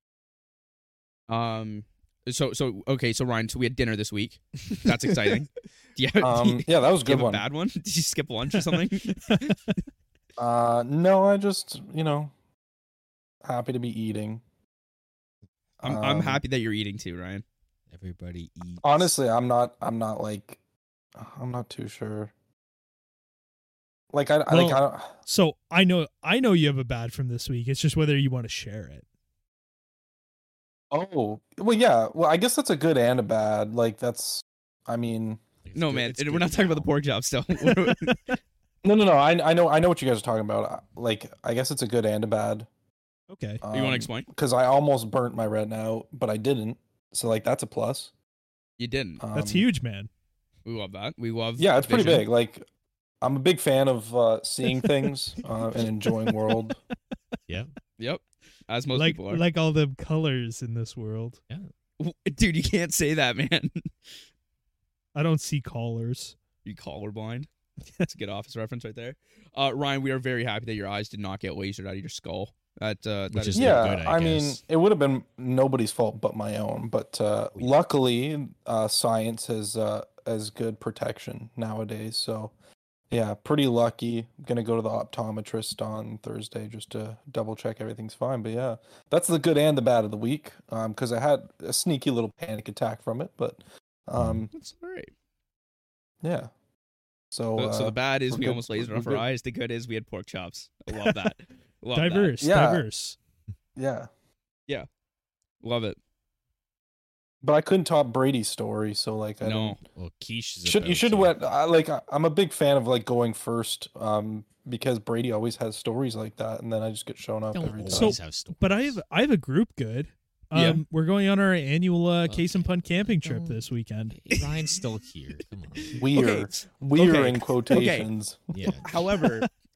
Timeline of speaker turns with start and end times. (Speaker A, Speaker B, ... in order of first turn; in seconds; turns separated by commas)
Speaker A: 1.3-9.6, Speaker B: 6.2-7.4, Speaker C: 8.6-9.7, Speaker B: 10.4-12.3, Speaker B: 13.4-14.4, Speaker B: 15.8-16.4, Speaker A: 15.8-17.4, Speaker D: 17.9-19.1, Speaker B: 18.8-20.6, Speaker B: 21.2-22.3, Speaker B: 24.1-25.1, Speaker C: 24.5-29.0, Speaker B: 30.9-35.4, Speaker D: 35.6-36.9, Speaker A: 35.7-38.3, Speaker C: 37.6-38.4, Speaker B: 38.8-42.7, Speaker C: 43.3-43.6, Speaker B: 43.6-48.1, Speaker A: 43.7-44.3, Speaker A: 48.8-49.2, Speaker B: 49.2-49.6, Speaker C: 49.3-50.1, Speaker A: 50.6-52.2, Speaker B: 51.6-52.6, Speaker B: 53.2-56.8, Speaker C: 54.7-55.1, Speaker C: 55.8-56.7, Speaker A: 58.0-59.4, Speaker C: 58.9-61.4, Speaker A: 62.0-64.1, Speaker C: 65.1-66.3, Speaker A: 66.6-67.5, Speaker A: 68.0-73.9, Speaker D: 73.3-74.6, Speaker B: 73.5-82.5, Speaker B: 83.1-94.5, Speaker D: 94.2-94.4, Speaker A: 94.5-95.1, Speaker B: 96.2-96.5, Speaker B: 97.3-99.2, Speaker A: 97.5-102.4, Speaker C: 101.9-103.2, Speaker B: 102.4-102.8, Speaker B: 103.8-104.1, Speaker A: 105.6-106.0, Speaker B: 107.4-109.8, Speaker A: 109.4-109.8, Speaker D: 109.9-111.3, Speaker B: 110.6-118.2, Speaker D: 117.5-119.0, Speaker C: 117.9-124.2, Speaker A: 120.5-120.8, Speaker D: 122.2-126.0, Speaker A: 124.3-124.6, Speaker A: 125.8-128.1, Speaker B: 126.0-128.8, Speaker D: 128.5-129.5, Speaker A: 128.8-129.5